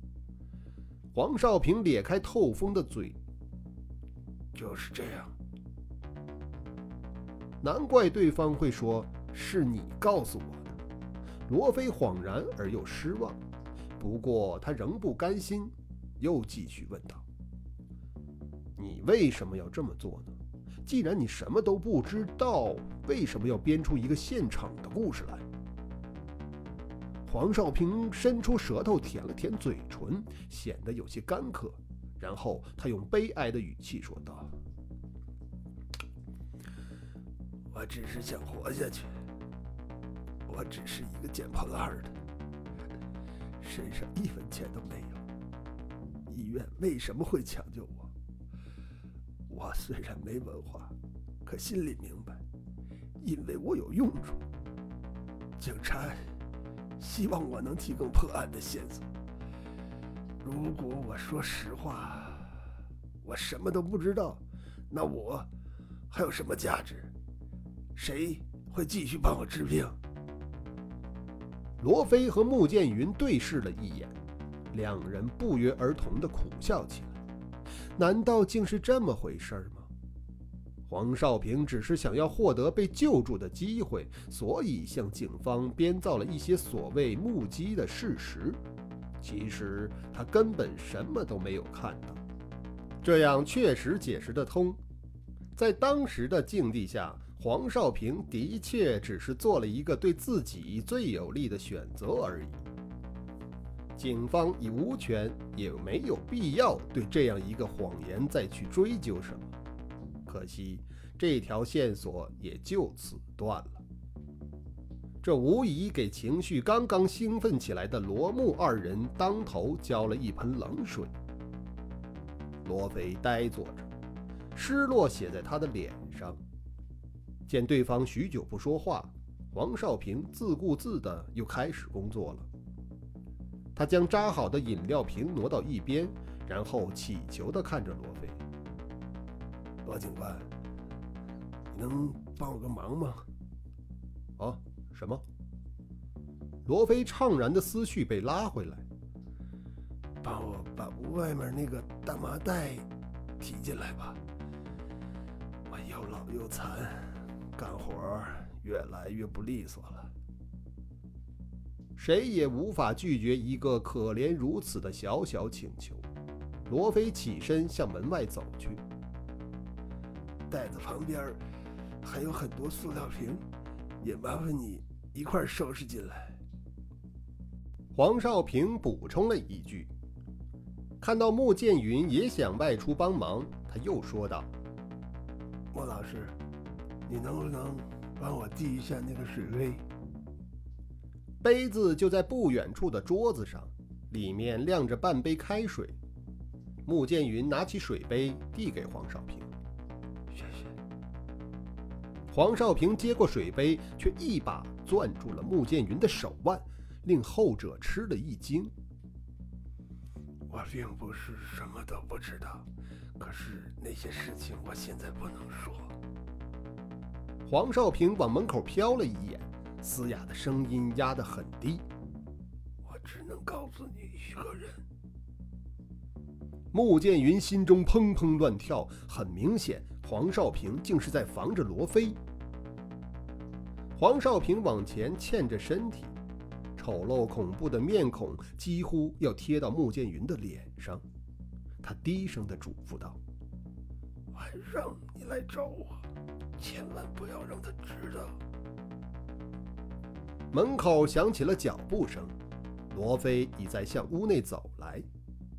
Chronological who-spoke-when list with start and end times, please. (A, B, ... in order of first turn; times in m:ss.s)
0:01.1-0:03.2 A
0:04.5-0:05.4 B
0:07.6-0:10.8 A
0:11.5-0:13.4 A
0:14.0-0:17.2 A
0:18.8-0:20.4 A
0:20.9-0:25.4 A
0:27.3-0:34.6 A
0:37.7-0:39.2 B
0:40.5-0:42.2 B
0:43.6-0:45.2 B
0:46.3-0:48.1 B
0:49.5-0:50.9 B
0:51.4-0:52.4 B
0:53.2-0:54.4 B
0:55.6-0:56.3 B
0:57.0-0:59.1 B
1:00.4-1:02.7 B
1:03.2-1:05.5 B
1:06.1-1:07.1 B
1:08.0-1:10.0 B
1:11.8-1:14.2 A
1:14.7-1:17.2 A
1:18.0-1:19.9 A
1:20.9-1:28.6 A
1:29.2-1:32.2 A
1:33.0-1:34.8 A
1:35.6-1:42.6 A
1:44.0-1:49.5 A
1:50.3-1:53.8 A
1:55.2-2:01.1 A
2:02.6-2:03.9 A
2:04.6-2:06.4 A
2:07.5-2:12.5 A
2:13.8-2:18.4 A
2:19.8-2:20.5 B
2:21.7-2:23.2 B
2:24.4-2:25.2 A
2:26.7-2:28.8 A
2:30.2-2:32.9 B
2:33.4-2:34.2 B
2:35.7-2:40.1 B
2:42.0-2:46.1 A
2:46.7-2:48.8 A
2:50.5-2:51.4 B
2:52.0-2:53.4 B
2:54.0-2:56.4 B
2:58.0-2:59.9 A
3:01.0-3:04.5 A
3:05.7-3:06.4 B
3:07.1-3:09.8 B
3:11.4-3:16.0 A
3:16.8-3:19.5 A
3:20.3-3:20.7 B
3:22.3-3:28.7 A
3:30.5-3:36.0 B
3:37.5-3:41.8 A
3:42.8-3:44.8 B
3:46.7-3:52.2 A
3:54.0-3:56.2 A
3:56.8-4:01.0 A
4:01.8-4:03.2 A
4:04.3-4:06.1 B
4:06.6-4:08.4 B
4:10.5-4:12.3 A
4:12.9-4:15.1 A